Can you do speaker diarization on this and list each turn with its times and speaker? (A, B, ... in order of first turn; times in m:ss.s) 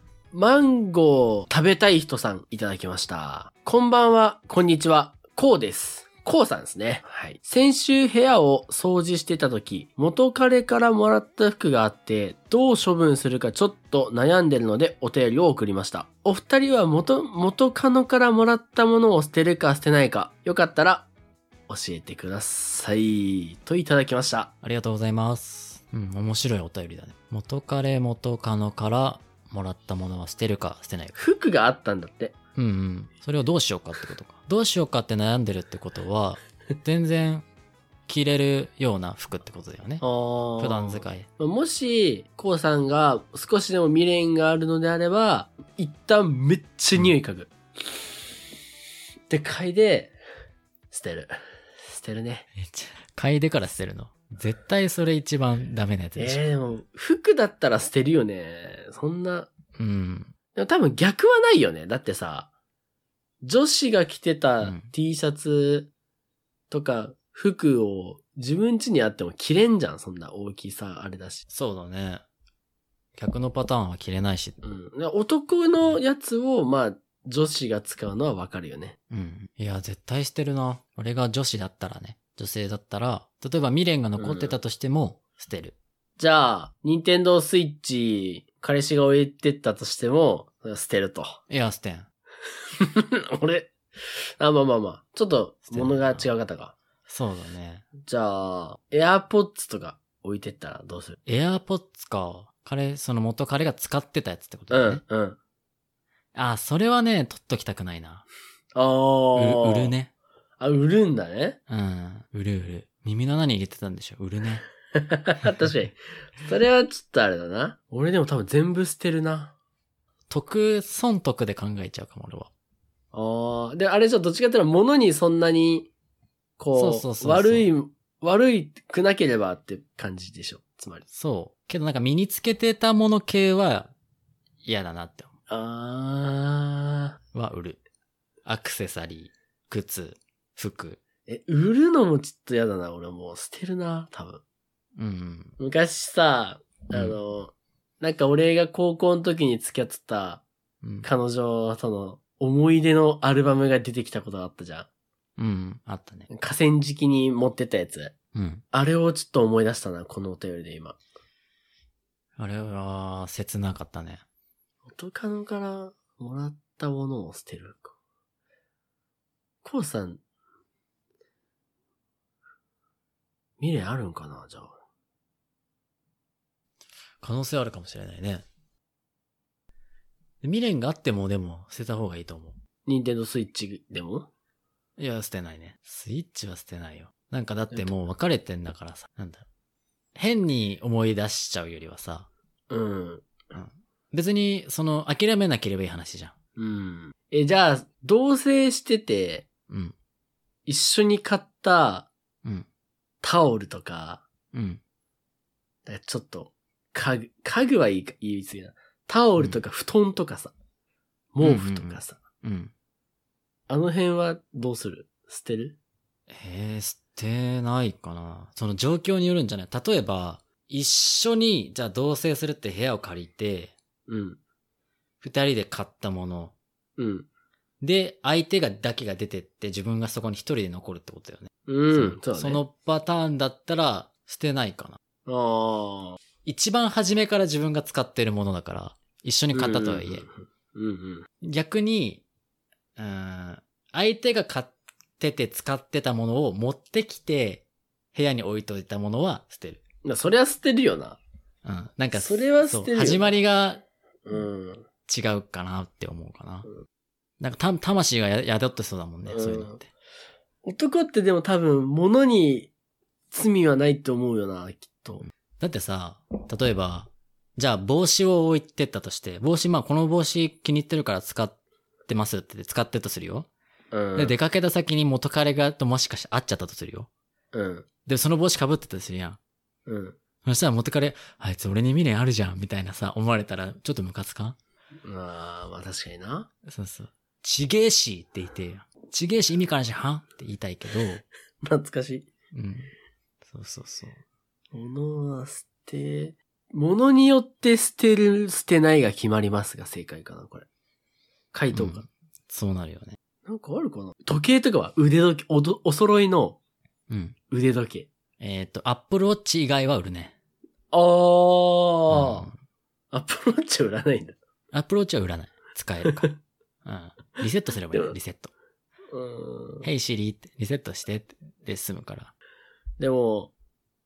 0:00.3-0:21.1 A
0:21.7-0:24.5 A
0:24.6-0:31.2 B
0:31.2-0:32.3 A
0:32.6-0:37.5 B
0:38.1-0:40.0 B
0:40.0-0:47.5 A
0:40.6-0:41.3 B
0:49.3-0:50.2 A
0:50.9-0:51.3 A
0:51.8-0:52.5 A
0:52.6-0:56.4 B
0:56.2-0:59.5 A
0:59.8-1:00.3 B
1:00.6-1:02.5 A
1:03.4-1:05.9 A
1:04.6-1:04.9 B
1:06.7-1:11.4 A
1:11.5-1:12.2 B
1:13.2-1:14.6 B
1:14.6-1:19.0 A
1:19.1-1:25.8 B
1:24.2-1:24.6 A
1:26.2-1:31.4 A
1:31.5-1:32.1 B
1:32.8-1:36.8 A
1:35.7-1:36.3 B
1:37.1-1:37.9 B
1:38.0-1:41.2 A
1:41.3-1:45.0 B
1:44.7-1:45.4 A
1:46.4-1:48.3 B
1:48.8-1:49.9 A
1:49.4-1:50.1 B
1:50.6-1:51.6 A
1:51.7-1:54.6 B
1:55.0-1:59.6 A
2:00.3-2:02.5 B
2:03.1-2:05.9 A
2:06.6-2:11.0 A
2:06.8-2:07.7 B
2:11.1-2:13.9 B
2:14.6-2:15.3 B
2:15.5-2:17.2 A
2:17.3-2:17.8 B
2:18.4-2:21.0 B
2:21.3-2:24.4 A
2:25.0-2:25.6 B
2:25.6-2:30.4 A
2:26.9-2:27.2 B
2:30.8-2:31.1 B
2:31.0-2:34.9 A
2:35.4-2:36.3 B
2:36.3-2:38.1 A
2:38.3-2:38.6 B
2:38.7-2:41.0 A
2:42.4-2:44.2 B
2:45.0-2:47.9 A
2:49.6-2:50.2 A
2:53.6-2:54.8 A
2:57.2-2:58.4 B
3:00.4-3:02.6 B
3:02.9-3:04.3 A
3:05.0-3:09.4 B
3:10.2-3:12.3 B
3:12.7-3:13.3 A
3:13.5-3:16.4 B
3:16.6-3:19.5 A
3:19.7-3:20.0 B
3:20.7-3:22.1 A
3:23.2-3:24.2 A
3:24.5-3:24.8 B
3:25.9-3:30.5 A
3:31.3-3:32.2 A
3:31.4-3:32.7 B
3:33.7-3:35.8 A
3:36.3-3:43.7 B
3:44.1-3:44.4 A
3:45.2-3:46.5 B
3:47.0-3:47.3 A
3:47.8-3:55.0 B
3:51.7-3:52.6 A
3:55.3-3:56.2 A
3:56.4-4:00.2 B
3:59.5-4:01.3 A
4:01.4-4:02.2 B
4:03.0-4:09.8 B
4:10.0-4:11.2 A
4:11.6-4:13.8 B
4:12.2-4:13.4 A
4:14.3-4:14.9 A
4:15.1-4:16.7 B
4:17.4-4:19.9 B
4:19.3-4:19.8 A
4:20.6-4:22.7 A
4:23.3-4:25.3 A
4:25.6-4:33.5 B
4:33.9-4:34.4 A
4:34.2-4:37.1 B
4:37.5-4:37.9 A
4:38.1-4:39.4 B
4:39.9-4:40.2 A
4:40.4-4:44.6 B
4:45.0-4:46.5 A
4:46.6-4:51.2 B
4:51.6-4:52.3 A
4:52.5-4:52.9 B
4:53.4-4:54.2 B
4:54.7-5:00.7 A
5:01.5-5:02.0 A
5:01.7-5:03.2 B
5:03.4-5:06.6 A
5:07.1-5:07.4 B
5:07.5-5:08.1 A
5:08.4-5:10.3 B
5:10.9-5:12.5 A
5:12.1-5:12.6 B
5:13.1-5:14.4 A
5:14.7-5:16.3 B
5:16.8-5:18.5 B
5:19.1-5:19.9 A
5:19.8-5:22.3 B
5:23.0-5:23.5 A